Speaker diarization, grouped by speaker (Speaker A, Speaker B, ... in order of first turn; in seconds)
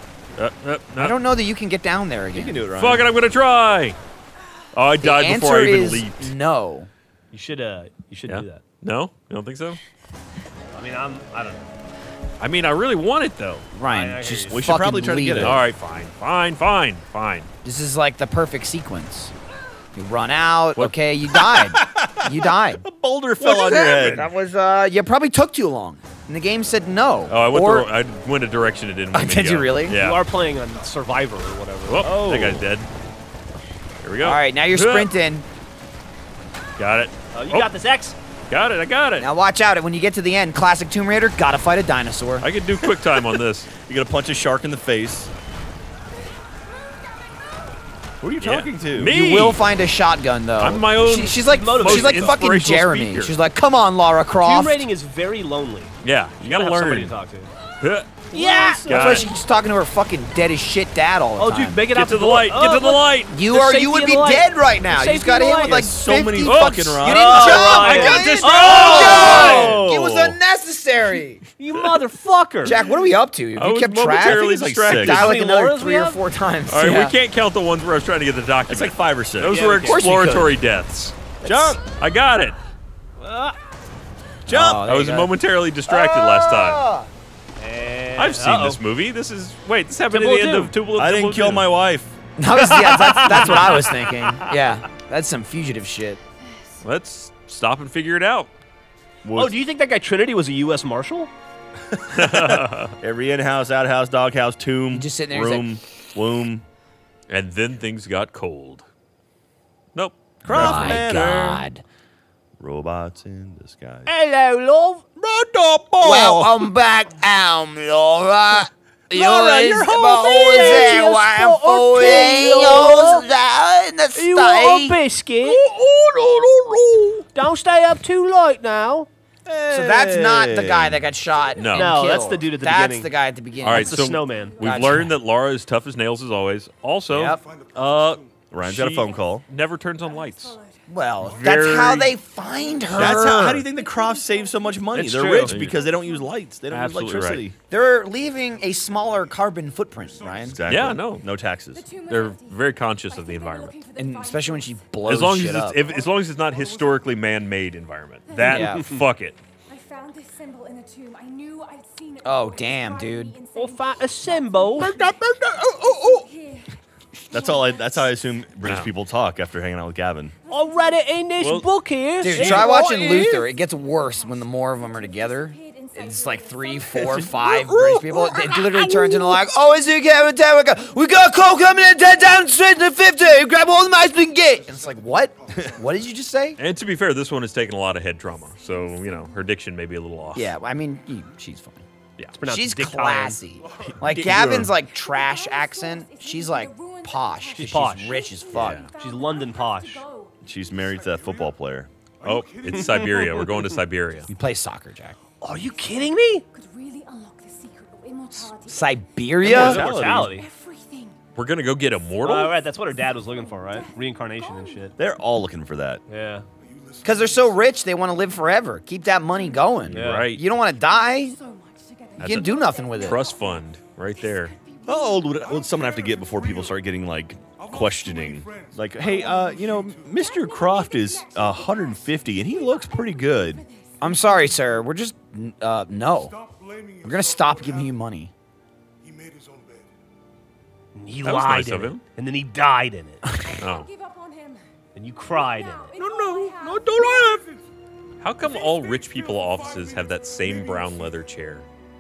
Speaker A: 0.4-1.1, 2.8-4.0, 4.7-6.3, 8.3-9.8, 12.4-13.7, 15.3-17.5, 23.5-24.3, 27.3-30.2, 31.9-32.9, 34.0-35.1, 36.8-37.7, 38.5-39.3, 42.4-43.7, 48.4-49.6, 50.6-53.4, 56.0-57.1, 57.8-59.3, 61.9-63.3, 66.4-69.8, 73.5-75.3, 76.7-81.2, 81.8-82.6, 84.8-86.8, 88.2-91.7, 96.8-98.5, 102.1-103.0, 107.3-108.9, 110.0-111.6, 131.6-132.1, 133.6-140.6, 141.2-142.1, 142.9-143.6, 145.4-145.8, 146.7-147.5, 150.7-151.3, 152.1-153.8, 155.0-159.4, 168.6-168.9, 171.4-171.7, 186.6-190.5, 198.5-198.9, 202.2-204.3, 211.3-212.6, 219.9-220.4, 222.2-224.6, 241.2-242.0, 243.6-243.9, 248.2-251.7
Speaker B: 1.0-2.6, 5.0-6.9, 13.7-15.6, 17.6-19.3, 19.9-22.8, 23.4-27.9, 29.1-30.0, 34.2-35.5, 39.2-42.5, 49.1-54.9, 58.7-61.8, 63.3-71.4, 72.6-77.1, 79.8-80.6, 81.4-81.8, 84.5-85.3, 85.9-87.1, 92.4-96.2, 104.9-105.7, 110.5-111.8, 116.0-125.0, 129.7-135.1, 137.1-137.4, 140.9-143.6, 147.7-150.6, 153.9-155.8, 158.4-158.8, 162.2-163.4, 172.2-186.6, 190.3-191.8, 192.4-198.9, 204.3-205.2, 208.3-209.9, 217.0-221.4, 222.2-223.2, 234.0-236.3, 237.0-238.3, 243.3-243.6
Speaker C: 2.3-3.1, 14.5-15.6, 21.3-24.3, 32.0-32.7, 42.8-45.3, 48.2-49.1, 65.6-70.4, 74.0-75.3, 78.7-80.2, 81.4-81.8, 84.5-84.9, 90.9-92.2, 99.2-99.5, 101.9-106.6, 110.5-111.6, 112.6-114.1, 115.2-116.7, 119.1-121.1, 125.4-127.3, 129.4-131.1, 138.5-139.4, 142.9-147.6, 150.4-151.9, 164.8-166.3, 167.3-170.3, 172.3-173.5, 176.9-179.4, 194.2-194.7, 200.4-201.9, 209.4-210.4, 215.0-216.0, 224.8-233.6, 245.9-247.4
Speaker D: 7.3-8.6, 10.7-11.7, 13.9-14.7, 29.9-32.1, 37.3-38.1, 51.5-52.5, 54.4-57.5, 58.3-59.3, 61.4-65.9, 67.0-69.8, 71.6-72.8, 75.0-76.2, 79.5-80.1, 83.2-83.6, 87.6-88.8, 90.1-90.7, 92.5-94.5, 99.3-101.3, 114.0-115.0, 120.2-123.3, 124.1-125.6, 127.3-129.1, 131.7-133.1, 133.6-134.7, 144.9-145.5, 158.5-159.0, 163.5-165.0, 170.5-172.8, 192.4-194.7, 197.6-198.1, 199.0-200.0, 202.7-203.7, 205.4-206.4, 209.4-210.5, 212.2-214.9, 216.1-216.4, 219.9-220.3, 240.9-243.2, 244.9-245.9
Speaker E: 96.4-96.8, 134.3-135.1, 140.0-141.0, 142.5-146.3, 151.7-155.0, 158.3-159.0, 159.7-168.6, 170.4-171.1, 172.8-177.7, 179.9-182.7, 188.2-189.5, 194.7-200.4, 205.5-211.2, 212.9-214.9, 219.3-219.7, 220.6-225.5, 230.1-234.6, 243.5-244.7, 245.2-247.4
Speaker F: 137.2-138.5, 141.1-142.9, 145.7-146.3, 148.3-151.0, 155.6-157.5, 183.6-186.1, 193.6-194.6, 200.6-201.6, 202.2-203.5, 216.6-217.9, 225.3-230.6, 236.1-238.0, 239.0-239.9, 247.2-247.6, 248.4-251.3